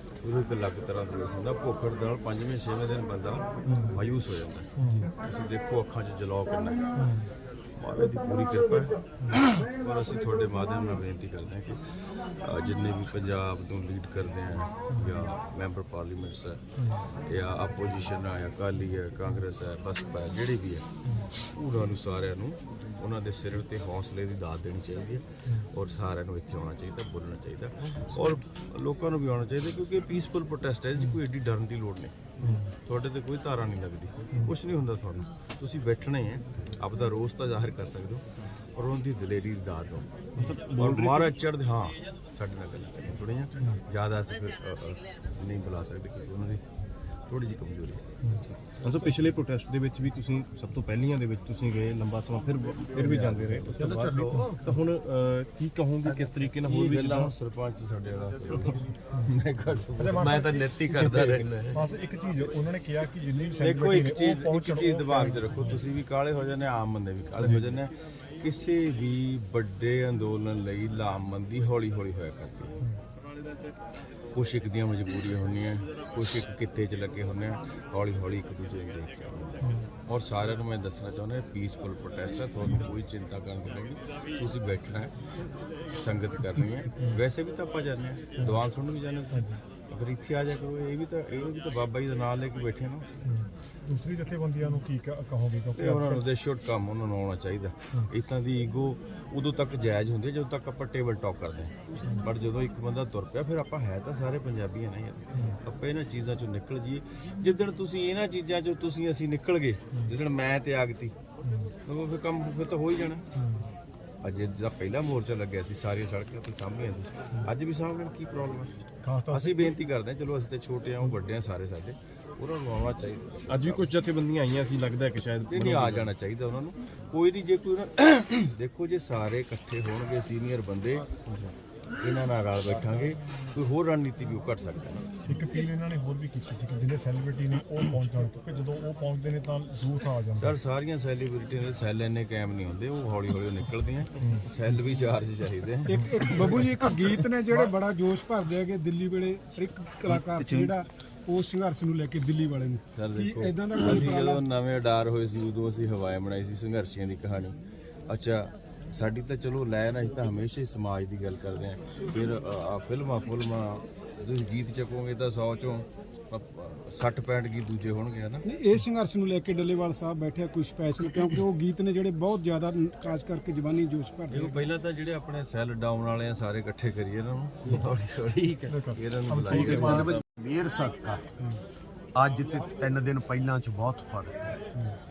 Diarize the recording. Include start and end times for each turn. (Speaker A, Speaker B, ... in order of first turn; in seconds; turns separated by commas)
Speaker A: 0.2-6.9, Speaker B: 3.6-3.9, Speaker B: 4.8-5.1, Speaker B: 7.0-7.3, Speaker A: 7.7-32.1, Speaker B: 14.9-15.3, Speaker B: 16.8-17.0, Speaker B: 32.4-32.7, Speaker A: 32.8-40.1, Speaker C: 40.4-41.3, Speaker A: 40.8-46.6, Speaker A: 47.3-48.0, Speaker C: 48.7-57.3, Speaker A: 53.0-53.7, Speaker D: 53.8-54.6, Speaker A: 56.1-61.5, Speaker B: 60.0-60.5, Speaker D: 60.2-61.8, Speaker B: 61.7-65.8, Speaker A: 63.6-72.8, Speaker A: 74.3-85.2, Speaker B: 79.6-79.9, Speaker A: 85.9-93.1, Speaker B: 89.3-89.6, Speaker B: 93.3-96.3, Speaker A: 95.8-111.1, Speaker B: 105.3-105.6, Speaker B: 111.4-111.7, Speaker A: 111.9-113.3, Speaker B: 113.3-113.7, Speaker A: 114.2-123.9, Speaker B: 119.0-119.8, Speaker C: 123.5-126.1, Speaker A: 125.5-131.1, Speaker C: 131.2-131.5, Speaker A: 131.9-135.2, Speaker B: 135.3-140.6, Speaker A: 140.3-146.7, Speaker B: 144.2-144.4, Speaker E: 145.8-154.4, Speaker A: 150.1-150.7, Speaker A: 152.9-168.4, Speaker E: 168.4-174.7, Speaker A: 174.3-180.1, Speaker B: 178.7-180.2, Speaker C: 179.5-180.2, Speaker D: 179.7-181.2, Speaker D: 182.2-184.6